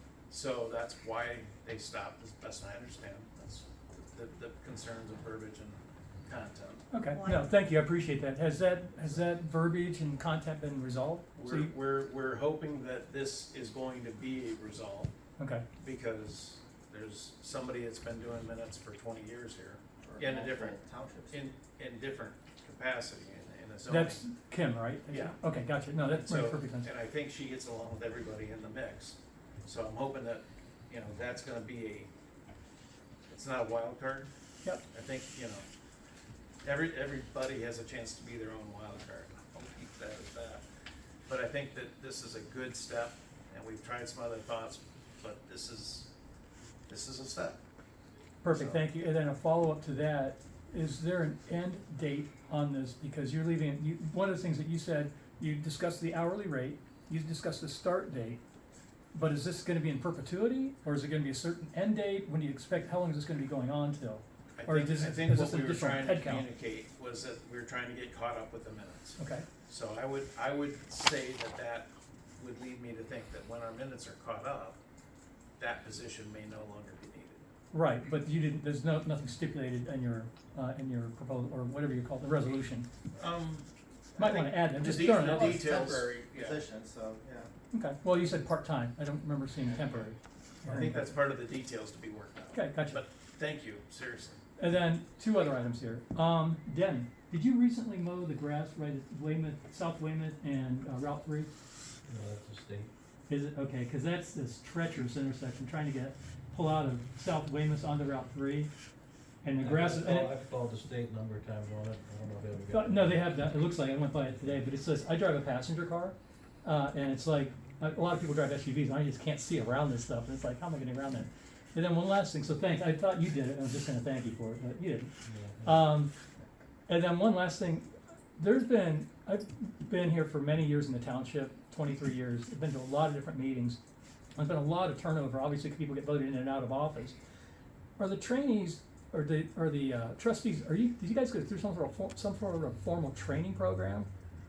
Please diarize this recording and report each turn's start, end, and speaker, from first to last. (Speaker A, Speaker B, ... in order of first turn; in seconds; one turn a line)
Speaker A: 0.3-6.8
Speaker B: 6.9-11.7
Speaker A: 11.3-15.1
Speaker B: 15.4-15.6
Speaker A: 15.8-24.2
Speaker C: 20.0-21.4
Speaker B: 23.9-26.9
Speaker A: 25.1-25.4
Speaker A: 26.0-32.1
Speaker A: 33.3-34.3
Speaker A: 34.9-35.7
Speaker A: 36.6-40.6
Speaker A: 41.3-46.1
Speaker A: 46.9-47.6
Speaker B: 48.4-58.4
Speaker A: 48.5-48.8
Speaker B: 59.1-66.5
Speaker A: 64.6-74.8
Speaker B: 69.2-69.4
Speaker A: 75.6-77.4
Speaker B: 77.7-82.9
Speaker A: 83.2-86.6
Speaker B: 84.2-85.6
Speaker C: 84.2-87.5
Speaker B: 87.7-91.0
Speaker A: 90.6-94.4
Speaker B: 92.5-93.0
Speaker B: 94.6-101.5
Speaker D: 102.0-102.9
Speaker B: 103.3-108.7
Speaker B: 109.4-110.3
Speaker D: 109.6-113.3
Speaker B: 112.7-126.1
Speaker D: 125.2-125.9
Speaker B: 126.9-133.8
Speaker B: 134.3-137.1
Speaker B: 138.0-144.1